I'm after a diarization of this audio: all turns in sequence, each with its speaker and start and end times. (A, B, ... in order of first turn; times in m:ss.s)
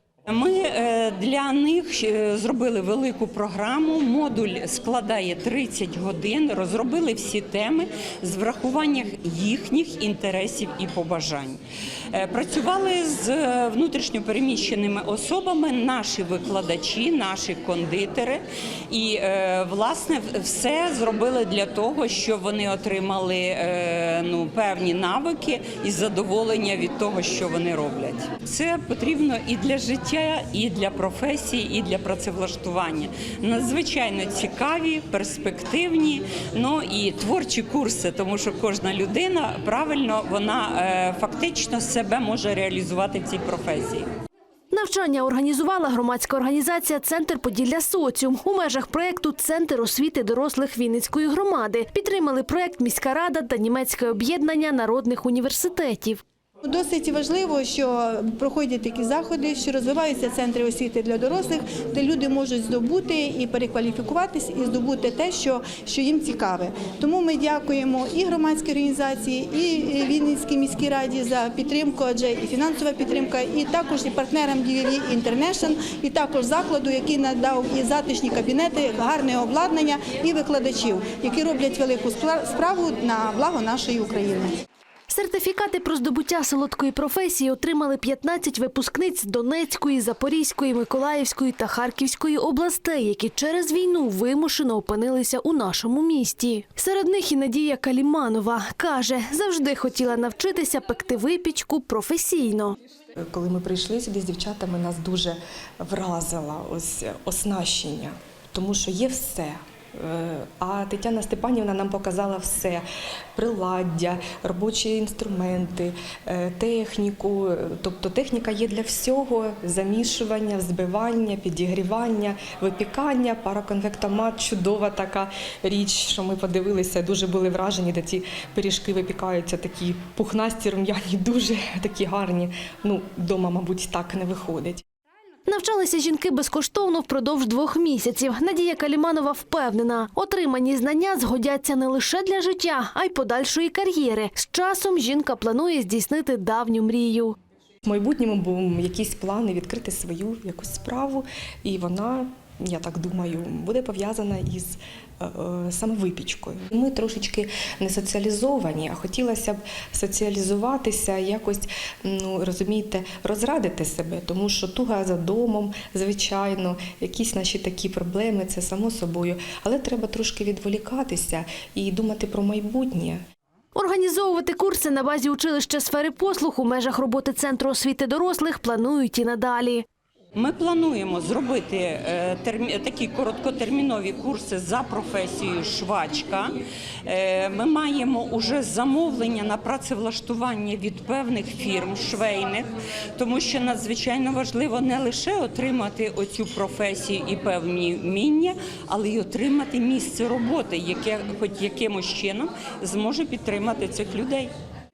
0:00.3-0:11.6 A
0:12.1-0:44.1 A
0:44.7-0:56.2 B
0:56.6-1:24.6 C
1:25.1-1:42.8 B
1:43.2-1:52.8 D
1:53.3-2:14.8 D
2:15.5-2:27.3 B
2:27.8-2:53.2 D
2:53.7-2:59.8 B
3:00.3-3:24.5 A